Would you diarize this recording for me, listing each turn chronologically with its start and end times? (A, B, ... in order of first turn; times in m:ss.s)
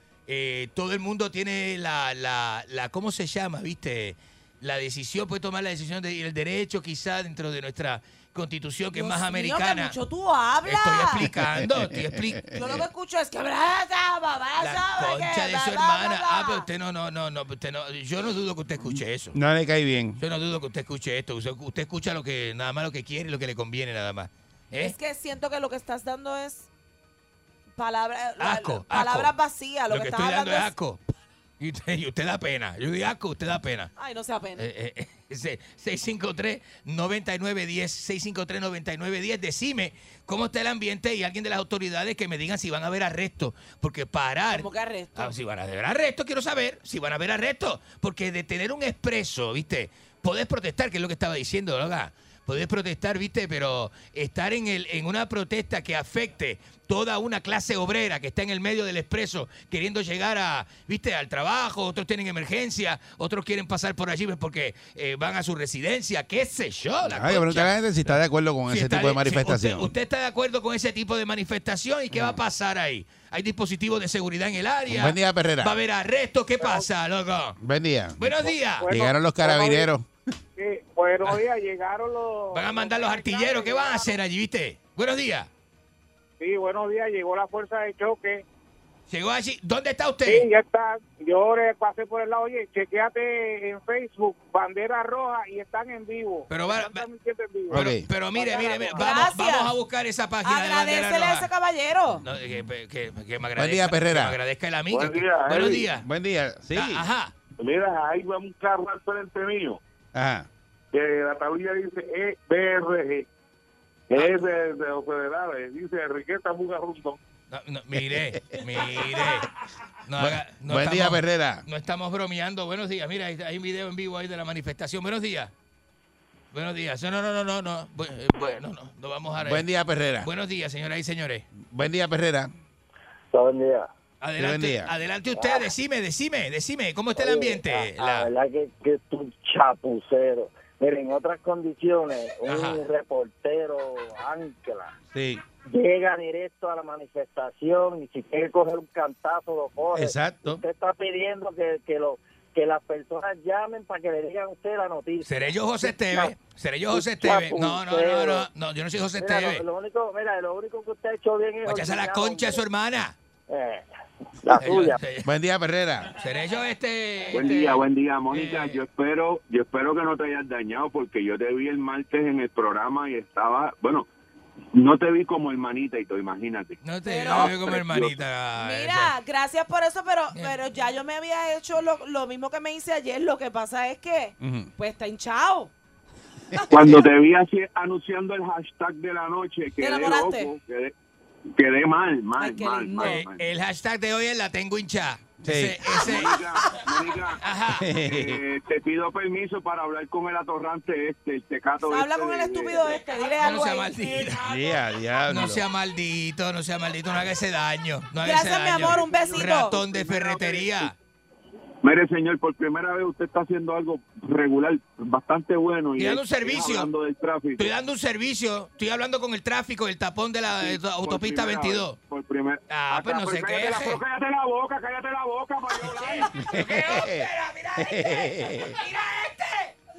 0:00.3-0:10.0 A
0:08.9-0:11.3 B
0:10.6-0:12.5 A
0:11.4-0:11.7 C
0:12.5-0:16.7 B
0:14.6-0:19.4 A
0:18.9-0:20.2 C
0:20.2-0:24.9 A
0:24.8-0:26.7 B
0:27.8-0:30.7 B
0:28.4-0:29.3 A
0:29.9-0:31.0 A
0:31.6-0:33.9 A
0:34.0-0:34.6 B
0:34.6-1:17.6 A
0:44.5-0:45.3 B
1:07.0-1:09.9 C
1:12.1-1:12.4 C
1:14.9-1:15.8 C
1:16.6-1:16.9 D
1:17.6-1:20.1 C
1:18.2-1:18.9 A
1:18.8-1:19.9 D
1:20.6-1:24.2 D
1:22.5-1:25.5 A
1:26.4-1:28.4 D
1:29.1-1:30.5 A
1:30.2-1:39.1 D
1:36.5-1:37.0 A
1:37.7-1:38.0 C
1:37.7-1:41.5 A
1:39.0-1:39.7 B
1:40.4-1:42.2 B
1:42.2-1:46.1 A
1:43.6-1:44.4 C
1:45.9-1:47.0 C
1:46.7-1:47.3 A
1:49.2-1:49.7 E
1:50.1-1:50.5 C
1:51.1-1:51.6 E
1:52.2-1:52.5 E
1:54.1-1:54.5 A
1:56.1-1:57.1 E
1:57.5-1:59.5 A
2:00.0-2:05.5 A
2:00.2-2:01.6 C
2:06.5-2:09.6 A
2:09.4-2:10.3 C
2:10.2-2:11.5 A
2:11.7-2:12.5 C
2:13.3-2:13.9 F
2:14.2-2:18.3 A
2:14.4-2:14.9 C
2:15.3-2:15.7 F
2:17.2-2:24.9 F
2:22.5-2:22.8 A
2:25.1-2:25.4 C
2:25.7-2:36.3 F
2:29.9-2:30.6 C
2:35.2-2:39.6 A
2:36.9-2:38.5 F
2:39.2-2:42.6 F
2:41.6-2:43.1 A
2:43.5-2:43.8 F
2:44.4-2:45.0 F
2:44.6-2:45.3 A
2:45.2-2:46.1 C
2:46.1-2:48.8 A
2:47.3-2:54.0 G
2:54.8-2:56.7 G
2:56.8-2:59.1 A
2:57.0-2:57.6 B
2:57.3-2:58.1 G
2:58.6-3:05.7 B
3:04.4-3:04.7 C
3:06.5-3:07.0 B
3:06.7-3:10.9 G
3:09.8-3:10.5 B
3:11.6-3:13.4 G
3:12.4-3:13.2 B
3:13.0-3:16.5 A
3:15.4-3:16.0 C
3:16.0-3:17.3 G
3:17.4-3:17.9 A
3:17.7-3:18.4 C
3:18.1-3:22.7 G
3:21.8-3:24.2 B
3:23.4-3:24.7 A
3:24.4-3:25.6 C
3:25.2-3:30.9 A
3:28.2-3:29.8 B
3:29.9-3:30.8 G
3:31.8-3:37.6 G
3:35.9-3:36.9 A
3:37.5-3:42.0 A
3:40.7-3:42.6 G
3:42.7-3:44.0 A
3:43.1-3:46.2 G
3:45.8-3:49.7 A
3:46.3-3:48.8 C